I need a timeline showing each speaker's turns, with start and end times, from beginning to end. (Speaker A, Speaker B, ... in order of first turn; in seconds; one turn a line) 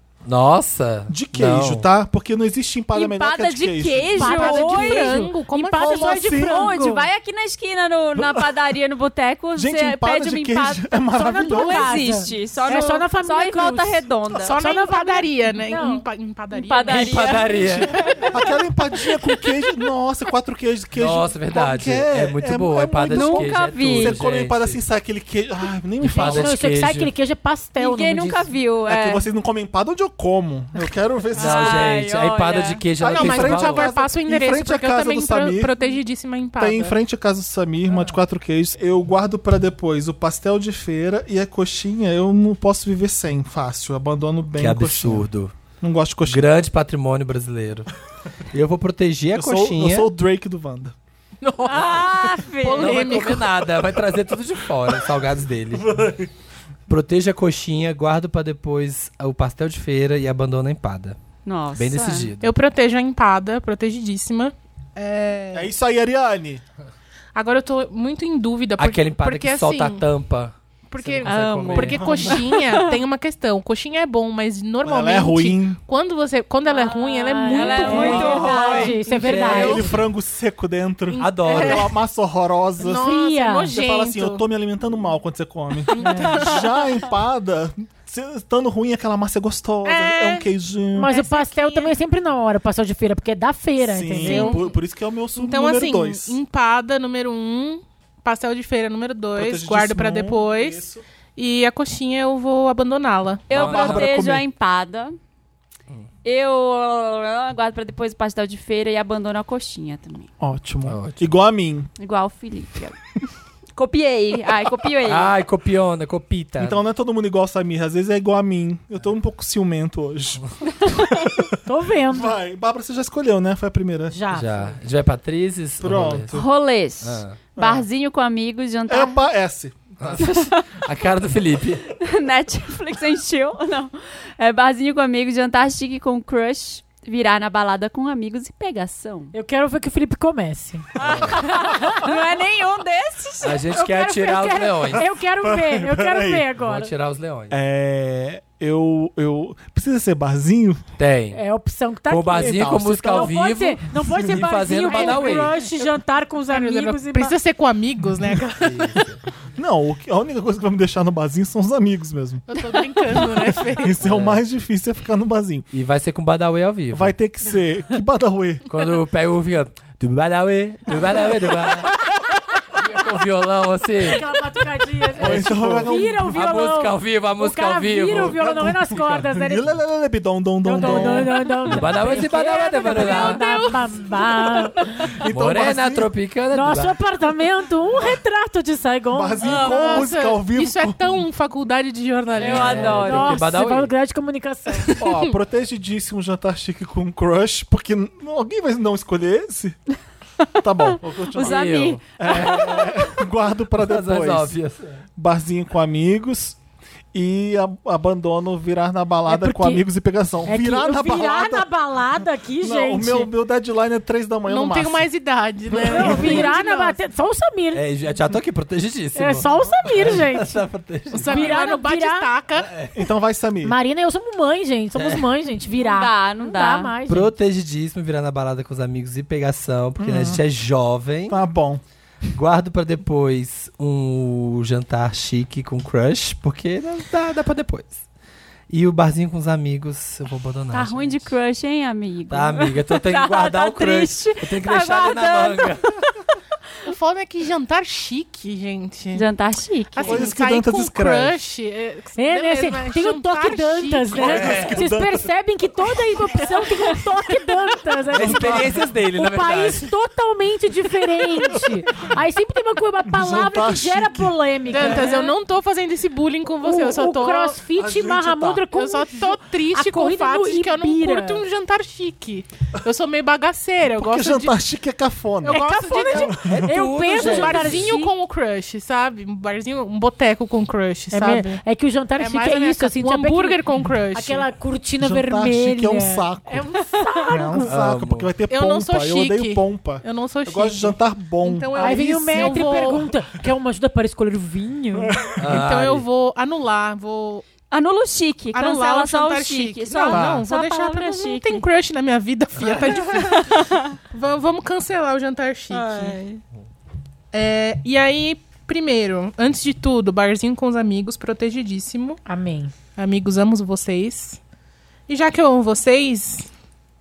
Speaker A: 0.2-1.9
Speaker B: 1.1-4.5
Speaker C: 2.9-5.3
Speaker D: 4.2-7.1
Speaker E: 4.2-6.2
Speaker B: 5.7-6.8
Speaker C: 6.3-14.6
Speaker B: 8.2-8.5
Speaker B: 9.6-12.0
Speaker D: 11.1-16.1
Speaker E: 14.4-18.3
Speaker C: 16.5-18.4
Speaker A: 16.9-18.0
Speaker B: 18.3-26.6
Speaker C: 19.1-19.5
Speaker A: 21.0-24.8
Speaker C: 23.1-24.2
Speaker A: 26.0-27.1
Speaker D: 26.1-28.5
Speaker C: 27.8-29.2
Speaker B: 28.9-31.9
Speaker C: 31.4-32.8
Speaker A: 31.4-33.9
Speaker B: 33.0-35.8
Speaker E: 33.0-36.9
Speaker B: 36.6-45.3
Speaker A: 44.6-45.5
Speaker B: 45.8-46.5
Speaker A: 46.3-47.9
Speaker A: 48.5-50.1
Speaker B: 49.3-51.0
Speaker E: 51.4-53.6
Speaker C: 51.7-53.3
Speaker A: 52.7-55.9
Speaker B: 55.7-56.3
Speaker A: 56.9-61.2
Speaker C: 61.5-62.3
Speaker A: 61.8-62.5
Speaker E: 62.4-65.7
Speaker B: 65.5-66.6
Speaker E: 67.3-70.1
Speaker A: 68.8-72.4
Speaker E: 70.9-79.7
Speaker C: 71.2-73.0
Speaker B: 71.9-72.5
Speaker B: 74.8-75.8
Speaker C: 76.7-79.9
Speaker D: 77.3-79.9
Speaker B: 78.0-83.1
Speaker A: 78.3-80.0
Speaker E: 81.1-81.9
Speaker A: 81.2-81.9
Speaker E: 82.8-84.5
Speaker D: 83.0-83.8
Speaker B: 83.7-91.2
Speaker E: 86.0-86.7
Speaker D: 86.0-86.5
Speaker E: 89.8-90.5
Speaker D: 91.0-94.6
Speaker E: 91.0-92.0
Speaker B: 93.8-96.4
Speaker E: 94.2-94.7
Speaker E: 95.4-100.8
Speaker B: 99.3-101.0
Speaker E: 101.4-103.5
Speaker C: 103.5-105.2
Speaker A: 103.5-104.3
Speaker B: 103.6-104.4
Speaker C: 106.2-110.3
Speaker B: 110.4-111.9
Speaker A: 110.9-111.2
Speaker C: 112.0-113.1
Speaker C: 113.8-115.3
Speaker A: 115.0-116.8
Speaker B: 116.6-121.5
Speaker D: 121.7-122.3
Speaker B: 122.1-124.2
Speaker D: 124.1-124.6
Speaker A: 124.3-126.4
Speaker B: 125.8-126.5
Speaker C: 126.3-129.2
Speaker A: 127.0-127.4
Speaker B: 127.6-127.9
Speaker B: 128.9-130.2
Speaker A: 130.0-131.9
Speaker C: 130.2-130.8
Speaker C: 131.9-139.3
Speaker D: 139.3-140.9
Speaker C: 141.0-143.7
Speaker A: 141.0-141.4
Speaker D: 141.5-142.0
Speaker A: 143.4-145.1
Speaker D: 143.7-146.9
Speaker B: 145.4-146.5
Speaker A: 146.6-147.6
Speaker B: 147.5-150.8
Speaker A: 151.0-151.4
Speaker D: 151.3-157.3
Speaker A: 152.1-155.5
Speaker B: 152.3-153.4
Speaker E: 154.9-155.6
Speaker E: 156.5-159.0
Speaker A: 158.6-159.2
Speaker B: 159.6-162.6
Speaker E: 162.5-164.0
Speaker B: 163.7-165.7
Speaker A: 164.0-164.4
Speaker A: 165.7-167.1
Speaker B: 166.9-168.7
Speaker A: 168.7-172.0
Speaker A: 172.7-174.3
Speaker D: 174.0-179.7
Speaker B: 175.2-176.5
Speaker A: 175.2-179.2
Speaker B: 178.1-181.5
Speaker D: 180.6-185.2
Speaker A: 180.8-183.4
Speaker E: 182.8-185.0
Speaker B: 185.2-186.1
Speaker A: 185.3-186.9
Speaker D: 186.5-190.1
Speaker B: 189.1-191.3
Speaker E: 189.4-193.2
Speaker A: 192.4-193.9
Speaker C: 192.4-193.4
Speaker D: 192.7-195.0
Speaker E: 194.9-195.3
Speaker B: 195.0-199.8
Speaker C: 200.4-202.9
Speaker B: 200.6-204.6
Speaker A: 201.3-203.0
Speaker A: 203.7-205.0
Speaker B: 205.2-206.6
Speaker B: 207.1-211.7
Speaker D: 209.3-209.8
Speaker D: 210.5-213.3
Speaker B: 212.6-215.1
Speaker E: 214.5-217.0
Speaker B: 215.7-216.1
Speaker D: 215.8-217.8
Speaker A: 217.7-221.6
Speaker D: 219.2-220.7
Speaker E: 221.1-222.7
Speaker D: 221.2-222.3
Speaker A: 222.6-223.0
Speaker B: 222.9-223.8
Speaker D: 223.6-227.3
Speaker A: 225.0-225.3
Speaker C: 225.8-226.9
Speaker A: 227.1-231.4
Speaker B: 230.0-230.4
Speaker B: 231.3-231.8
Speaker A: 232.3-238.0
Speaker A: 238.7-241.3
Speaker C: 240.7-246.0
Speaker A: 242.3-246.0
Speaker E: 246.8-249.3
Speaker C: 249.1-250.3
Speaker E: 249.9-254.7
Speaker B: 250.0-251.4
Speaker D: 252.2-265.4
Speaker B: 254.2-255.3
Speaker A: 254.2-254.8
Speaker B: 258.1-258.9
Speaker A: 258.1-259.9
Speaker B: 263.1-264.4
Speaker E: 264.7-267.6
Speaker D: 266.6-271.4
Speaker B: 267.8-268.7
Speaker E: 268.7-274.5
Speaker B: 274.0-275.6
Speaker D: 275.4-278.1
Speaker E: 275.5-276.4
Speaker B: 276.1-276.7
Speaker A: 276.4-277.9
Speaker E: 277.1-281.6
Speaker D: 281.1-283.6
Speaker E: 282.2-284.5
Speaker D: 284.1-287.7
Speaker B: 285.0-286.7
Speaker E: 286.8-287.3
Speaker B: 287.3-292.9
Speaker A: 287.7-288.3
Speaker E: 288.5-293.1
Speaker D: 291.8-295.2
Speaker B: 295.0-295.7
Speaker A: 295.4-296.1
Speaker E: 295.5-297.5
Speaker C: 297.7-301.6
Speaker E: 298.5-306.2
Speaker B: 300.1-300.5
Speaker A: 302.6-302.9
Speaker C: 303.0-304.0
Speaker C: 305.7-306.4
Speaker E: 307.3-312.2
Speaker D: 312.3-312.7
Speaker E: 313.0-314.4
Speaker E: 315.1-316.5